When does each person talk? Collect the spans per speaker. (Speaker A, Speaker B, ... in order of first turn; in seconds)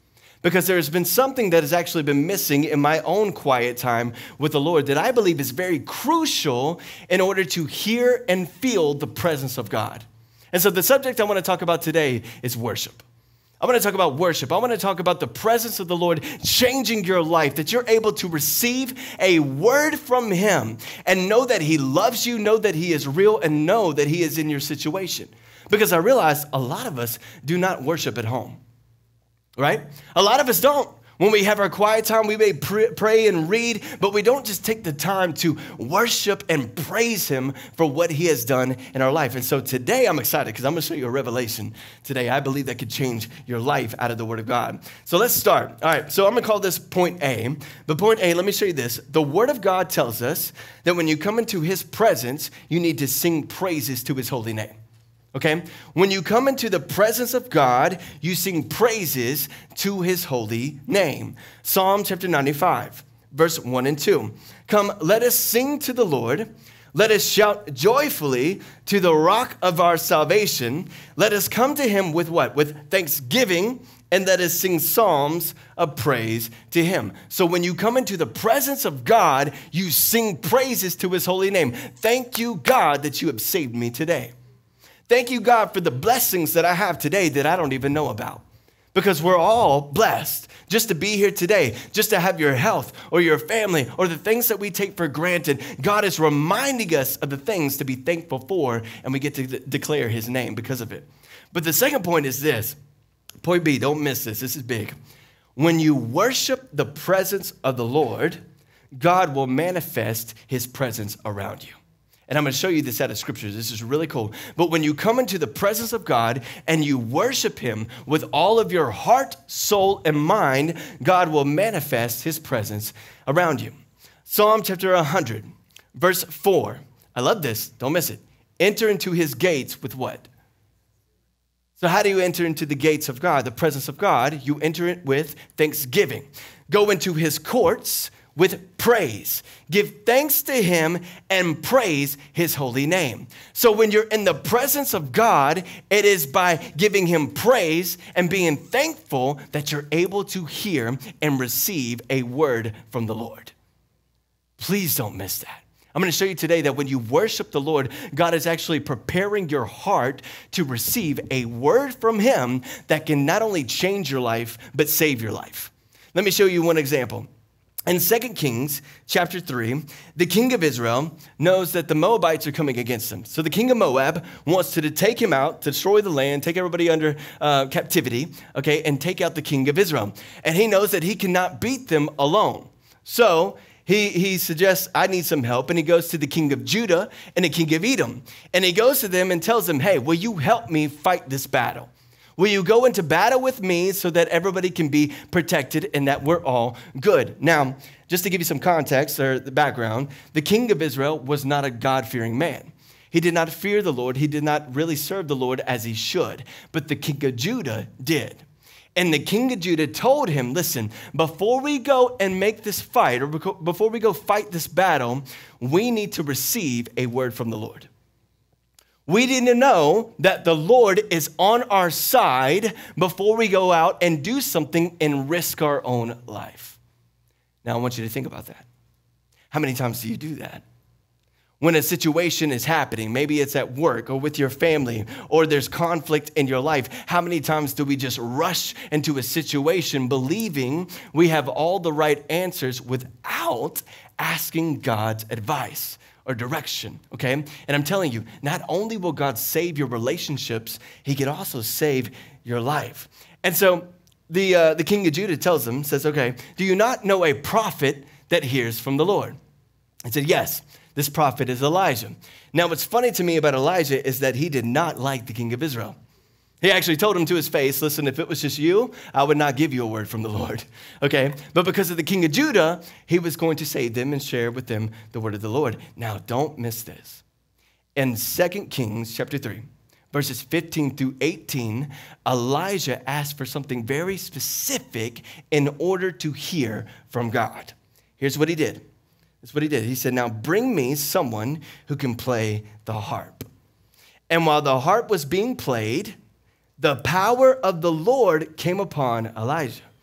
Speaker A: 0.4-13.0, 13.6-28.6, 29.6-54.8, 55.3-84.3, 85.1-102.8, 103.4-104.9, 105.6-108.4, 109.0-123.7, 124.3-130.3, 131.8-153.5, 154.6-167.3, 167.9-208.4, 209.0-217.9, 219.1-226.8, 227.6-228.7, 229.5-230.6, 231.6-259.4, 260.1-266.0, 266.6-277.2, 278.0-288.9, 289.4-293.5, 294.3-296.2, 296.8-299.9